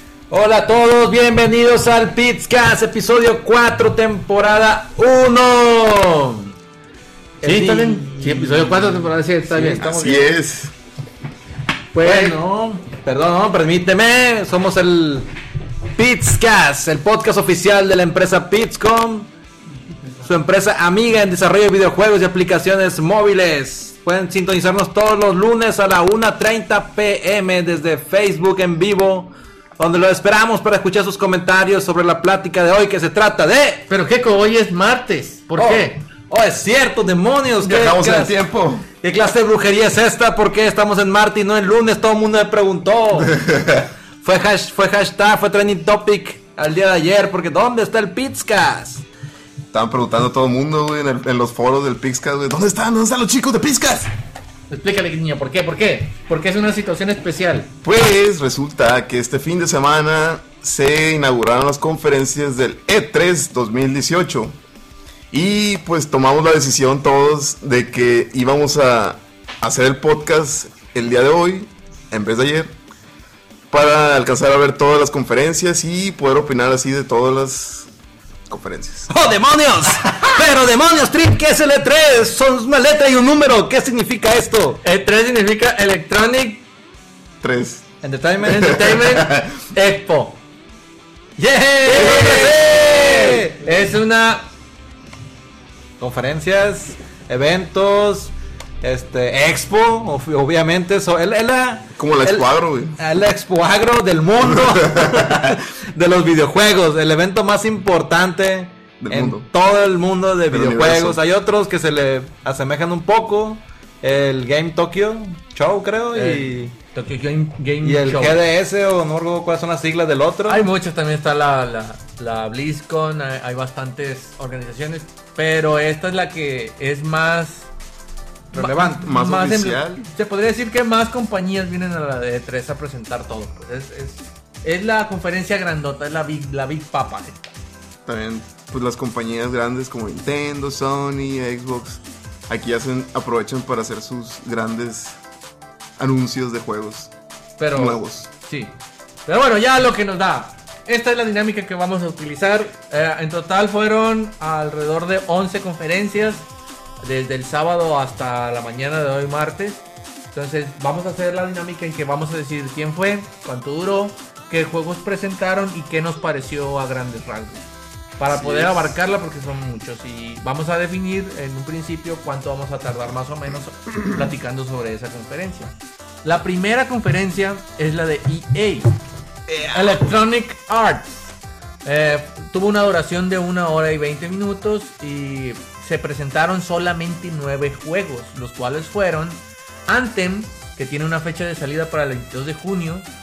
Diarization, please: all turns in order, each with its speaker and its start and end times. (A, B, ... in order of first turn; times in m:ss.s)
0:00.3-0:06.4 A
0:07.4-0:10.3 B
0:07.4-0:10.2 A
0:09.8-0:10.7 C
0:11.9-0:15.3 A
0:12.0-0:12.4 B
0:16.0-0:19.3 A
0:20.2-0:33.9 A
0:33.9-0:36.0 B
0:35.6-0:38.3 A
0:37.6-0:38.9 C
0:38.9-0:43.4 A
0:43.3-0:43.9 C
0:44.2-0:49.1 A
0:49.7-0:54.1 C
0:54.7-0:57.7 B
0:57.8-1:04.6 C
1:05.3-1:12.7 C
1:13.7-1:17.9 C
1:18.5-1:19.1 C
1:19.1-1:24.8 A
1:24.8-1:26.6 B
1:27.4-1:27.9 C
1:28.0-1:28.9 A
1:28.4-1:30.4 B
1:28.5-1:29.6 C
1:31.4-1:34.4 B
1:31.4-1:33.7 A
1:36.0-1:56.8 A
1:42.0-1:43.0 C
1:44.5-1:45.6 C
1:49.0-1:49.5 C
1:50.5-1:51.2 C
1:56.1-1:58.4 B
1:57.8-2:00.7 A
2:00.5-2:07.7 B
2:08.5-2:17.6 B
2:08.5-2:09.0 A
2:09.0-2:10.1 C
2:18.1-2:25.2 C
2:26.0-2:27.1 C
2:27.6-2:28.7 B
2:27.7-2:28.3 C
2:29.3-2:36.5 B
2:37.0-2:47.7 B
2:48.2-2:58.9 B
2:48.3-2:48.9 C
2:59.5-3:00.0 C
2:59.7-3:01.3 B
3:01.8-3:13.1 B